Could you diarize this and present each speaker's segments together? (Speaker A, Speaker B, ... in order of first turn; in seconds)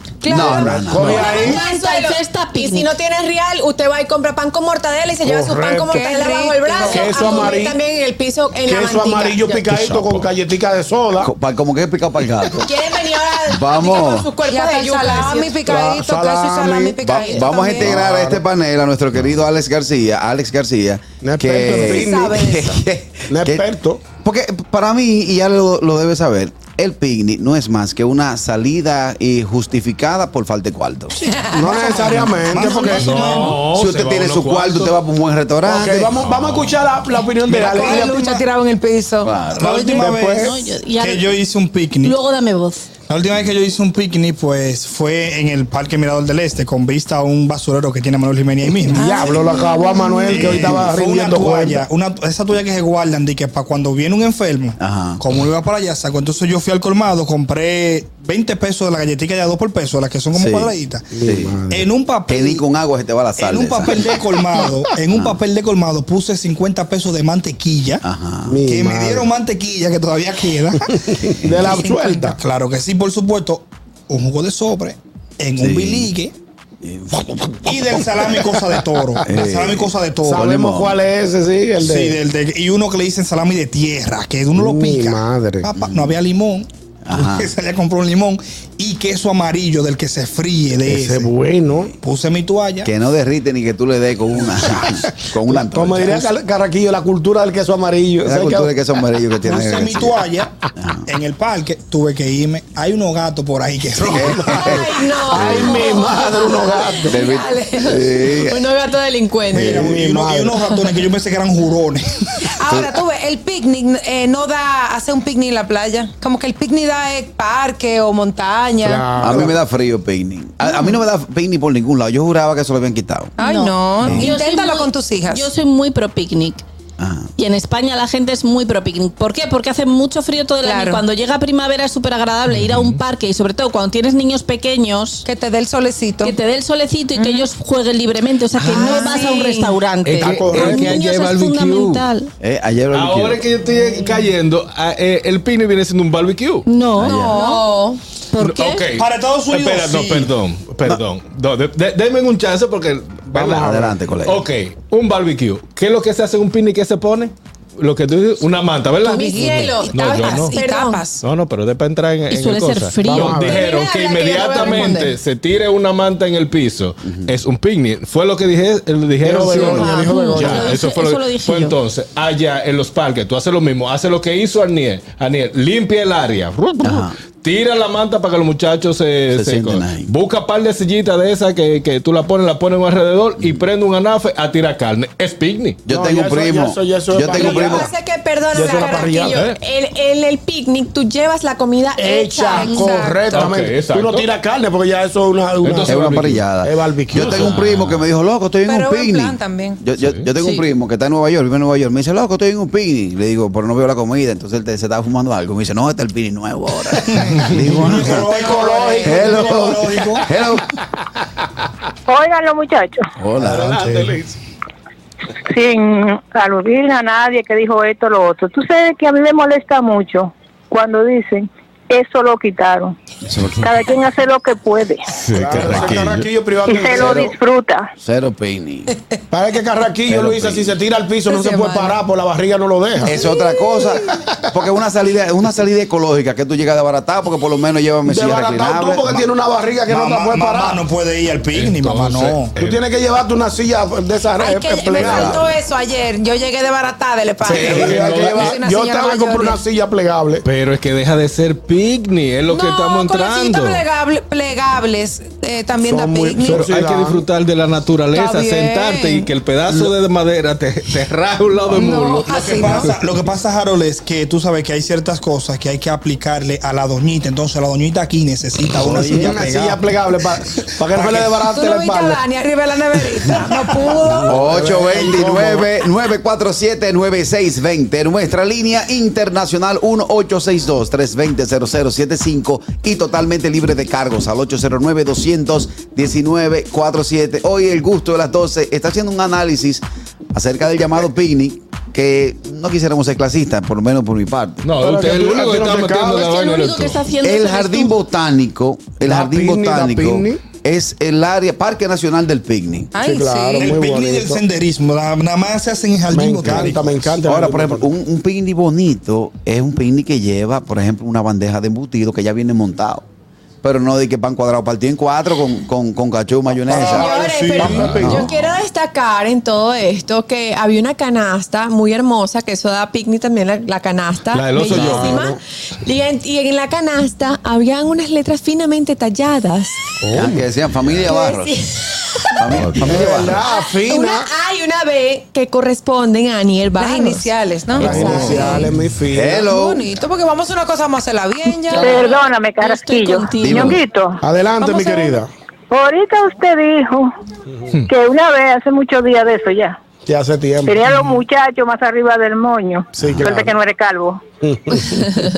Speaker A: 0.2-2.3, 5.9-7.1, 14.5-17.9, 21.7-22.7, 31.2-33.0, 37.1-39.4, 48.9-50.7, 105.9-108.2, 112.6-119.2, 120.6-121.0, 123.4-125.7, 130.6-131.1, 135.2-136.5, 137.1-137.6, 138.5-139.7, 146.9-147.7, 159.1-161.2, 162.7-163.6, 170.4-171.1, 192.5-193.3, 198.7-199.8, 208.3-209.5, 231.2-232.0, 244.4-249.6, 252.5-256.7, 258.1-259.3, 261.7-262.9, 271.5-274.4, 302.9-303.7, 336.8-338.6, 339.3-342.0, 342.7-343.4
Speaker B: 0.3-1.3, 9.7-10.3, 11.2-12.7, 13.5-14.3, 17.0-23.7, 24.2-31.2, 33.7-36.1, 39.2-39.8, 54.8-55.2, 60.3-61.5, 62.3-64.2, 65.1-65.4, 68.0-68.6, 71.4-71.8, 75.6-76.1, 76.8-77.3, 79.2-79.9, 85.8-86.2, 87.1-87.5, 92.8-96.3, 98.2-100.2, 100.8-101.0, 104.1-105.9, 107.1-108.6, 119.2-123.3, 124.0-124.3, 127.0-127.3, 142.4-143.5, 147.0-147.4, 153.4-154.4, 167.1-167.3, 176.8-177.2, 179.3-180.1, 183.4-183.7, 185.9-187.9, 195.9-208.3, 209.0-210.7, 213.2-213.8, 223.3-223.7, 228.0-228.9, 230.1-230.8, 233.1-239.2, 245.0-245.5, 268.8-269.3, 274.3-294.7, 297.2-302.9, 307.3-313.1, 313.6-317.2, 317.8-318.3, 324.7-325.1, 330.1-331.6, 332.4-333.4, 337.8-338.4, 339.1-339.9, 343.4-343.8, 353.0-353.3
Speaker C: 0.3-1.6, 5.2-5.9, 6.8-7.8, 8.7-11.3, 15.7-17.0, 17.8-18.4, 21.2-22.7, 23.3-24.0, 31.5-33.5, 35.6-38.2, 39.7-40.5, 48.9-51.8, 61.1-61.9, 68.5-69.3, 71.1-72.4, 77.3-77.6, 78.2-79.2, 80.2-82.2, 84.5-85.7, 90.9-91.9, 94.7-98.7, 104.1-107.2, 109.5-110.5, 118.8-119.6, 153.3-153.9, 163.1-163.7, 169.2-170.7, 185.9-187.9, 188.5-189.4, 192.0-197.5, 207.9-208.6, 209.7-210.1, 213.4-214.4, 225.4-227.4, 229.3-233.2, 238.1-240.8, 242.6-245.4, 247.5-250.4, 255.8-257.2, 269.1-272.2, 274.1-275.7, 294.8-296.3, 299.0-300.4, 303.0-304.4, 306.1-307.9, 316.6-318.3, 324.8-325.4, 330.0-330.4, 332.8-334.3, 337.8-339.4, 344.2-345.3, 350.1-350.9, 353.0-353.5, 354.4-355.2
Speaker D: 1.1-2.9, 40.5-41.1, 42.0-42.9, 123.4-123.7, 124.3-126.6, 127.4-135.2, 136.3-142.2, 146.7-147.6, 148.3-148.8, 162.3-163.4, 164.5-165.1, 169.5-171.7, 296.1-297.9, 338.0-338.3, 342.9-343.5
Speaker E: 1.1-9.7, 12.6-15.7, 17.2-17.4, 104.6-106.9, 108.4-109.8, 138.6-139.8, 143.8-144.2, 147.3-148.0, 159.1-161.0, 163.4-165.0, 187.3-192.9, 316.8-329.8, 331.0-332.3, 333.4-338.7
Speaker F: 31.7-33.6, 37.5-38.4, 39.5-42.2, 43.0-49.4, 50.3-61.1, 61.7-62.6, 63.4-68.0, 68.6-76.3, 77.6-81.0, 81.8-91.3, 92.0-92.9, 99.4-100.5, 101.1-104.8, 109.5-112.5, 140.2-140.8, 148.9-150.3, 207.1-210.3, 239.9-242.6, 262.3-271.5, 303.6-307.1, 316.7-318.2
Speaker G: 32.9-35.0, 36.2-36.9, 132.5-133.0, 140.0-142.1, 142.9-146.7, 148.4-153.7, 154.2-160.5, 161.2-185.8, 189.3-189.6, 193.3-194.3, 195.6-196.4, 197.1-198.1, 200.0-200.3, 225.2-226.3, 241.5-242.8, 247.5-248.6, 250.4-253.8, 256.5-262.3, 294.6-297.0, 317.7-318.1, 324.3-325.3, 332.5-333.2
Speaker H: 212.1-213.1, 215.4-223.0, 223.6-225.9, 226.6-227.9, 341.8-345.2, 345.7-347.1, 347.9-349.8, 350.6-354.2